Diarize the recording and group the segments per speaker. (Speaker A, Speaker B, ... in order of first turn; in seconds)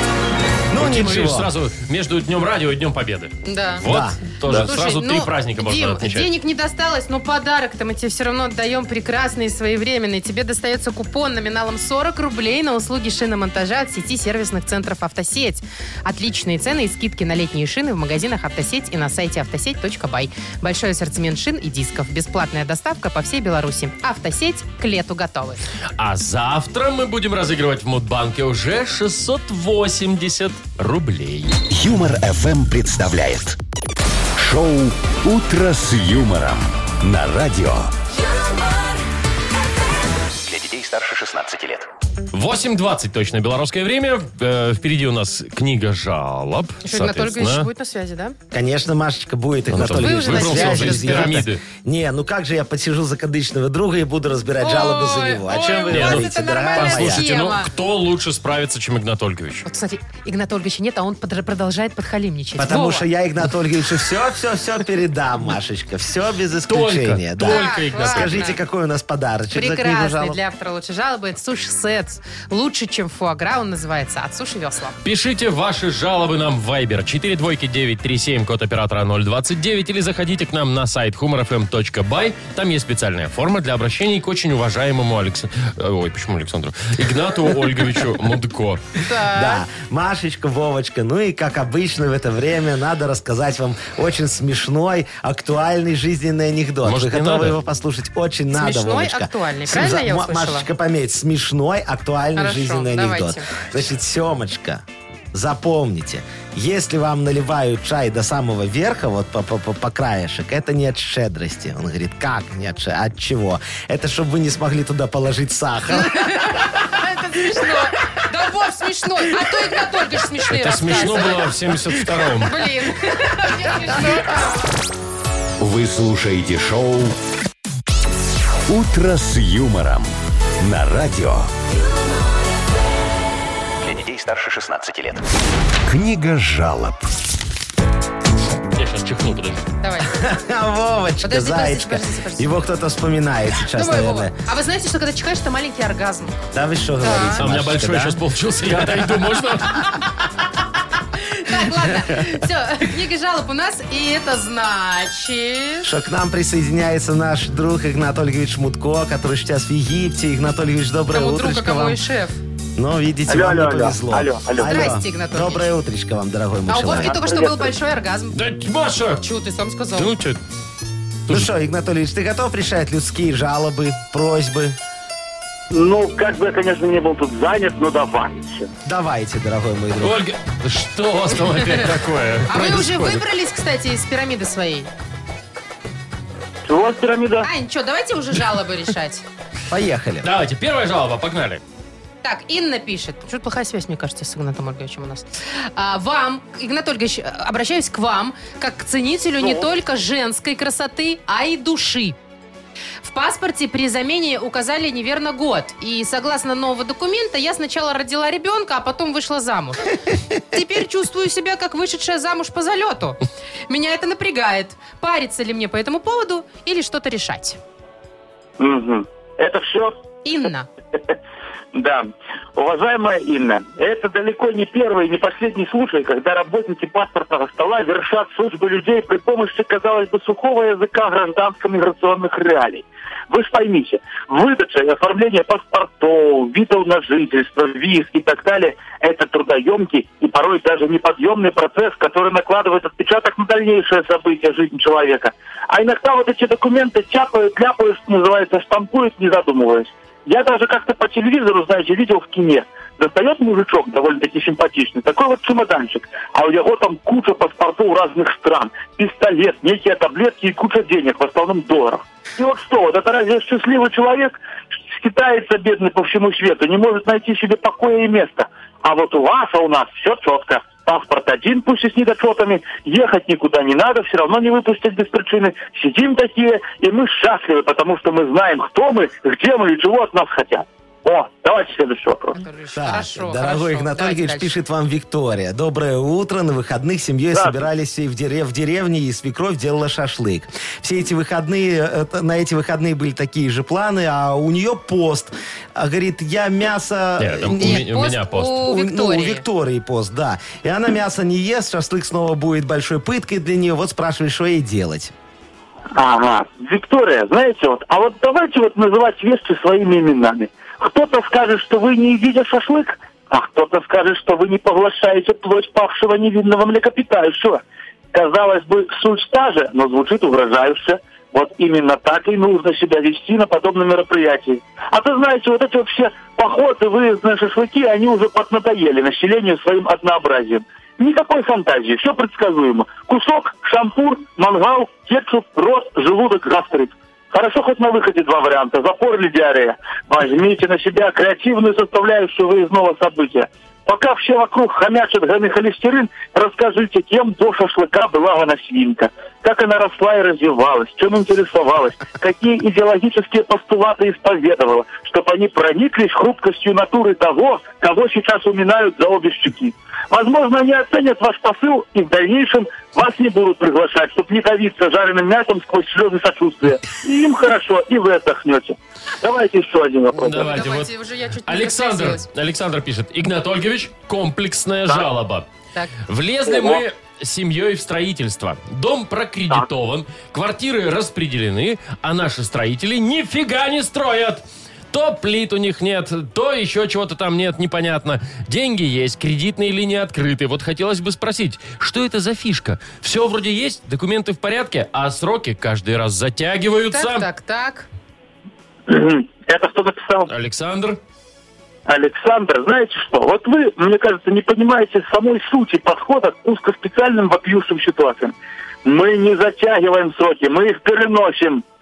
Speaker A: 0.7-1.5, 3.8-4.6, 48.5-57.2, 62.6-70.4, 89.3-116.7, 140.1-144.3, 146.5-148.2, 148.8-149.1, 152.1-152.4, 155.8-162.0, 162.8-167.1, 171.3-174.8, 178.8-180.2, 189.7-190.3, 282.7-297.9, 298.6-305.1
Speaker B: 0.7-6.3, 26.0-31.6, 42.3-47.7, 49.7-51.6, 55.6-59.6, 66.7-68.4, 75.0-88.8, 96.8-97.6, 120.5-122.6, 138.7-139.6, 147.4-150.0, 168.3-169.2, 169.9-170.4, 180.0-183.2, 190.2-191.6, 297.2-298.6, 370.1-370.9, 371.4-375.4, 376.1-397.3, 400.3-401.0
Speaker C: 3.5-3.8, 4.5-25.6, 46.8-48.4, 49.8-51.4, 54.6-57.7, 59.6-63.1, 67.4-68.6, 69.5-75.0, 89.0-89.6, 98.5-100.7, 102.3-103.5, 115.9-121.5, 122.4-124.6, 139.8-140.2, 141.2-142.5, 143.7-146.4, 147.0-147.4, 151.2-155.9, 161.1-162.4, 164.6-165.7, 166.7-168.4, 169.2-170.1, 182.5-184.9, 187.4-189.2, 192.2-202.2, 203.0-209.9, 210.5-217.6, 220.2-220.7, 282.4-284.5, 297.6-299.4, 370.4-372.2, 396.9-397.9
Speaker D: 31.7-33.6, 34.4-37.9, 125.6-127.2, 128.7-131.5, 135.8-137.1
Speaker E: 40.4-41.9, 133.8-135.2
Speaker F: 163.3-164.9, 167.0-167.7, 175.7-178.7, 186.6-187.5, 218.6-219.9, 221.7-282.4, 305.9-317.6, 318.1-370.6, 376.4-376.8, 398.9-400.3, 401.9-408.3, 408.8-411.6